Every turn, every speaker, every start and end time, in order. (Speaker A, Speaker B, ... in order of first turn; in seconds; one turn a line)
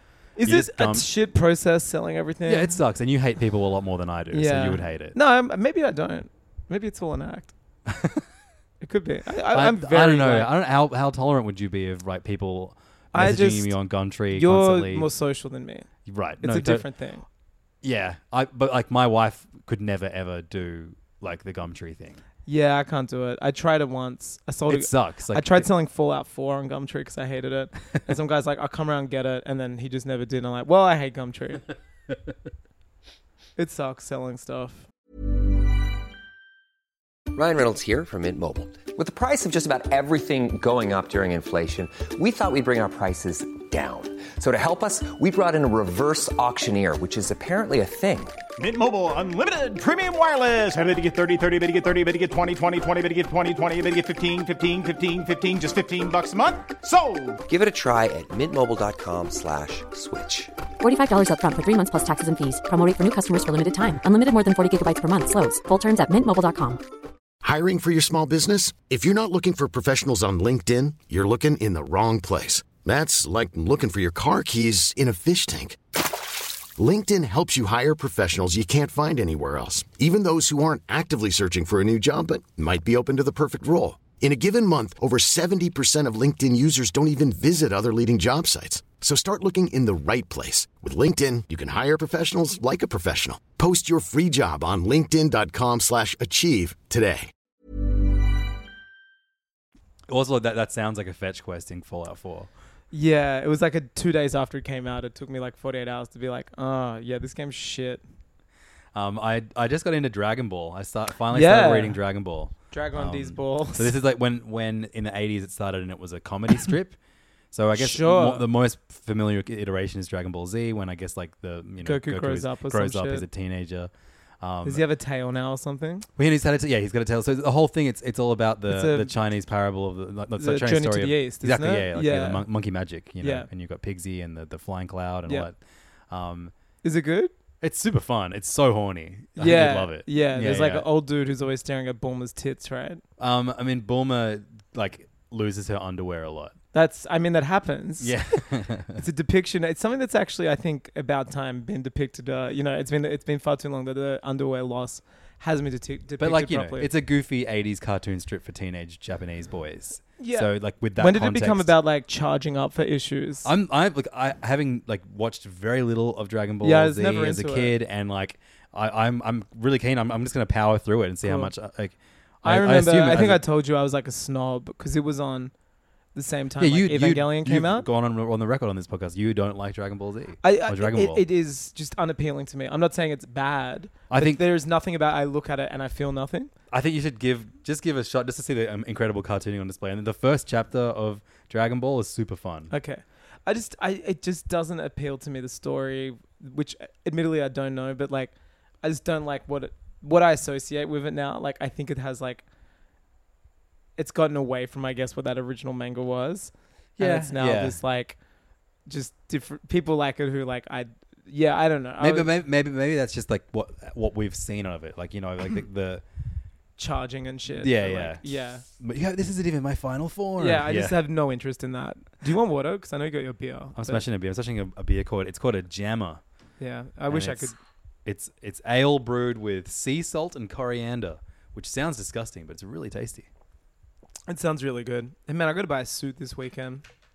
Speaker A: 0.4-2.8
Speaker B: 0.4-1.1
Speaker B: 2.5-5.2
Speaker A: 4.3-7.5
Speaker B: 7.9-8.2
Speaker A: 8.8-10.5
Speaker B: 9.5-15.1
Speaker A: 13.1-15.9
Speaker B: 16.1-16.9
Speaker A: 16.4-17.2
Speaker B: 17.8-22.2
Speaker A: 22.5-31.7
Speaker B: 24.7-25.7
Speaker A: 33.6-34.9
Speaker C: 37.3-48.4
Speaker D: 48.6-57.4
Speaker C: 57.5-60.5
Speaker E: 60.8-66.8
Speaker F: 67.4-75.8
Speaker F: 76.8-97.3
Speaker B: 100.1-102.5
Speaker A: 102.9-108.0
Speaker B: 108.9-117.0
Speaker A: 111.3-112.0
Speaker A: 112.7-114.0
Speaker B: 117.5-124.8
Speaker A: 117.8-118.5
Speaker A: 121.8-123.3
Speaker A: 124.6-126.1
Speaker B: 126.2-135.6
Speaker A: 128.7-129.1
Speaker A: 130.4-132.5
Speaker A: 133.2-133.5
Speaker B: 136.1-136.5
Speaker A: 136.8-137.3
Speaker B: 137.6-140.9
Speaker A: 139.4-143.0
Speaker B: 143.2-146.6
Speaker A: 146.7-148.2
Speaker B: 148.0-149.0
Speaker A: 149.0-156.9
Speaker B: 156.2-161.8
Speaker A: 160.2-163.5
Speaker B: 163.4-173.4
Speaker A: 166.6-167.8
Speaker A: 171.2-171.5
Speaker A: 172.4-175.5
Speaker A: 176.2-177.9
Speaker B: 176.6-181.2
Speaker A: 180.4-186.5
Speaker B: 184.1-184.4
Speaker B: 186.7-192.7
Speaker A: 192.7-202.4
Speaker A: 204.0-208.2
Speaker B: 207.0-207.8
Speaker A: 208.9-212.3
Speaker B: 212.0-216.0
Speaker A: 216.8-218.7
Speaker B: 217.6-218.2
Speaker B: 218.8-221.0
Speaker A: 220.4-224.0
Speaker B: 223.8-226.2
Speaker A: 226.6-227.6
Speaker B: 227.1-227.5
Speaker B: 228.1-233.3
Speaker A: 234.3-236.8